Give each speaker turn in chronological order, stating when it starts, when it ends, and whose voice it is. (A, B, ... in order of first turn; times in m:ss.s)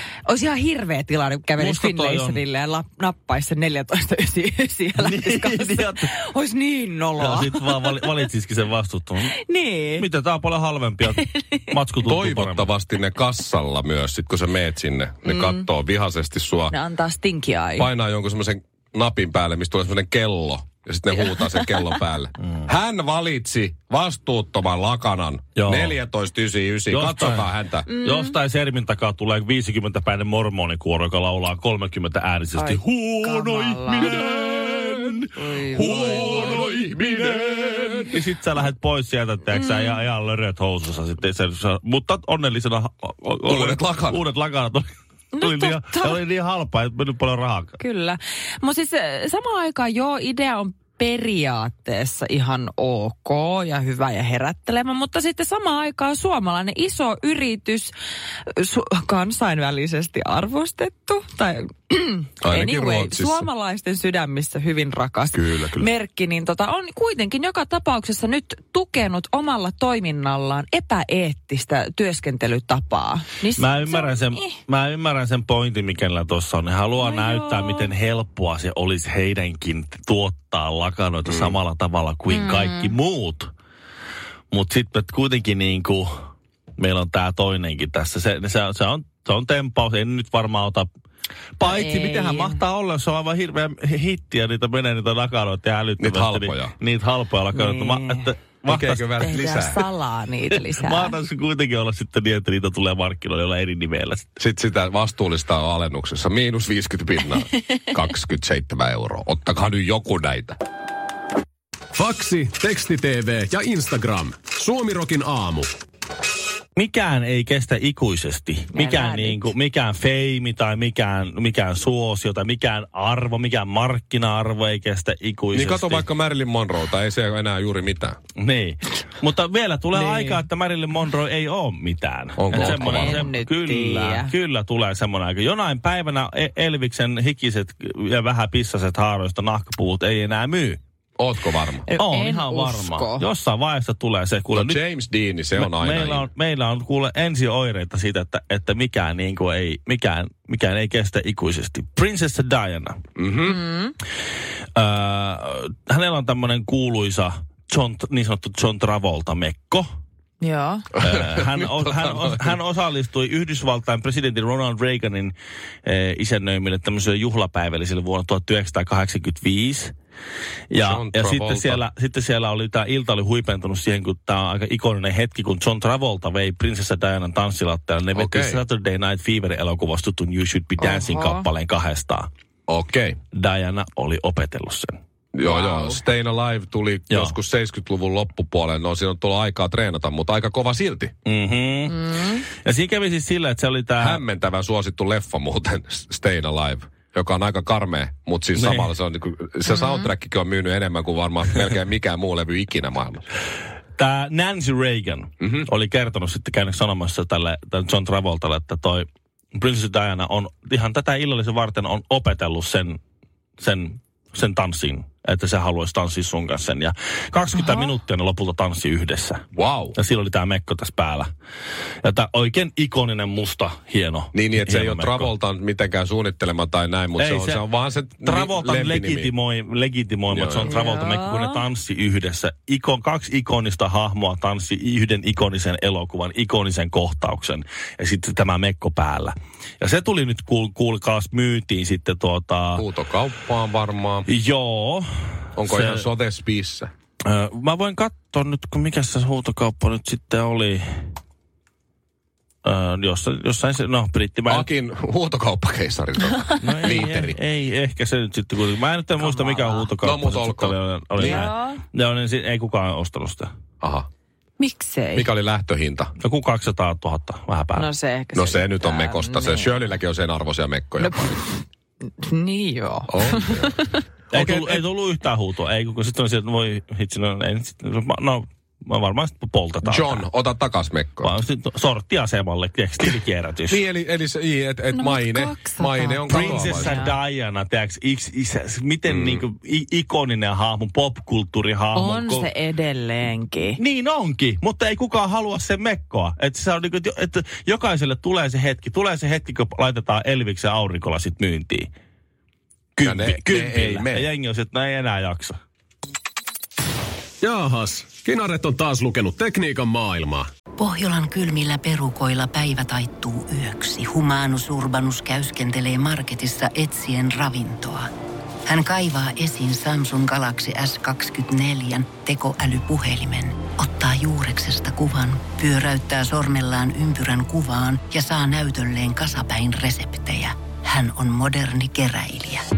0:00.2-0:08.1 A
0:01.6-0:02.4 B
0:05.0-0:06.1 B
0:07.2-0:09.3 B
0:09.4-0:10.0 A
0:10.0-0:12.7 B
0:12.0-0:16.8 C
0:15.2-0:15.6 A
0:16.7-0:17.9 A
0:17.8-0:27.9 C
0:21.1-0:21.6 A
0:25.6-0:26.0 B
0:26.9-0:44.9 B
0:27.9-0:28.3 A
0:32.6-0:34.3 A
0:35.4-0:36.5 A
0:35.8-0:37.5 C
0:39.5-0:39.9 A
0:43.5-0:44.2 C
0:45.3-0:46.2 A
0:45.4-0:47.8 B
0:47.8-0:57.9 A
0:58.5-1:14.5 A
1:02.4-1:03.5 C
1:05.3-1:05.9 C
1:13.6-1:23.5 B
1:17.0-1:17.9 A
1:21.3-1:21.6 C
1:22.3-1:22.9 A
1:24.5-1:26.1 B
1:26.8-1:30.9 B
1:31.6-1:39.1 B
1:31.6-1:32.6 A
1:36.0-1:36.7 C
1:37.5-1:38.3 A
1:38.7-1:39.8 C
1:39.2-1:41.2 A
1:40.5-1:44.3 B
1:44.4-1:50.6 C
1:52.0-1:55.7 D
1:56.8-2:06.1 B
1:58.7-1:59.5 A
2:05.5-2:08.2 C
2:08.4-2:20.8 B
2:09.9-2:10.4 A
2:12.4-2:13.3 C
2:12.5-2:14.3 A
2:21.2-2:21.9 C
2:21.9-2:23.3 A
2:22.0-2:24.8 B
2:24.5-2:26.3 C
2:25.6-2:33.0 B
2:33.2-2:33.6 C
2:33.4-2:33.9 A
2:34.8-2:39.9 B
2:40.4-2:40.9 A
2:41.0-2:42.5 C
2:41.0-2:49.9 B
2:50.7-3:02.3 B
2:50.8-2:51.8 C
2:58.1-2:58.6 C
3:00.8-3:01.5 A
3:02.7-3:03.2 C
3:03.3-3:05.0 B
3:05.3-3:11.1 C
3:05.4-3:06.0 A
3:07.1-3:07.4 B
3:11.2-3:14.2 B
3:12.1-3:12.3 A
3:14.0-3:23.2 C
3:18.6-3:18.9 B
3:19.7-3:20.0 A
3:24.0-3:33.0 B
3:33.6-3:41.3 B
3:39.6-3:40.0 C
3:42.0-3:45.3 B
3:44.3-3:49.3 C
3:47.2-3:47.6 B
3:48.2-4:02.8 B
3:50.3-3:50.7 C
3:50.7-3:51.6 A
4:02.8-4:04.3 C
4:04.3-4:05.1 B
4:05.6-4:06.9 C
4:05.6-4:06.1 B
4:07.2-4:11.0 B
4:12.6-4:14.7 B
4:14.5-4:17.4 C
4:16.6-4:23.5 B
4:19.2-4:19.9 A
4:20.0-4:21.5 C
4:21.2-4:21.8 A
4:24.6-4:25.3 A
4:25.1-4:26.1 C
4:26.2-4:27.9 B
4:27.7-4:29.9 A
4:28.3-4:31.4 C
4:31.0-4:31.6 A
4:32.2-4:34.0 A
4:33.1-4:33.8 C
4:34.3-4:40.2 B
4:34.3-4:34.9 C
4:39.8-4:41.3 C
4:41.2-4:43.8 B
4:43.7-4:47.0 C
4:44.9-4:47.1 A
4:46.3-4:52.5 B
4:49.1-4:49.4 C
4:51.9-4:53.8 A
4:53.8-5:01.9 B
5:03.0-5:05.6 B
5:03.0-5:04.3 C
5:07.4-5:10.5 D
5:10.8-5:18.1 E
5:18.7-5:32.6 E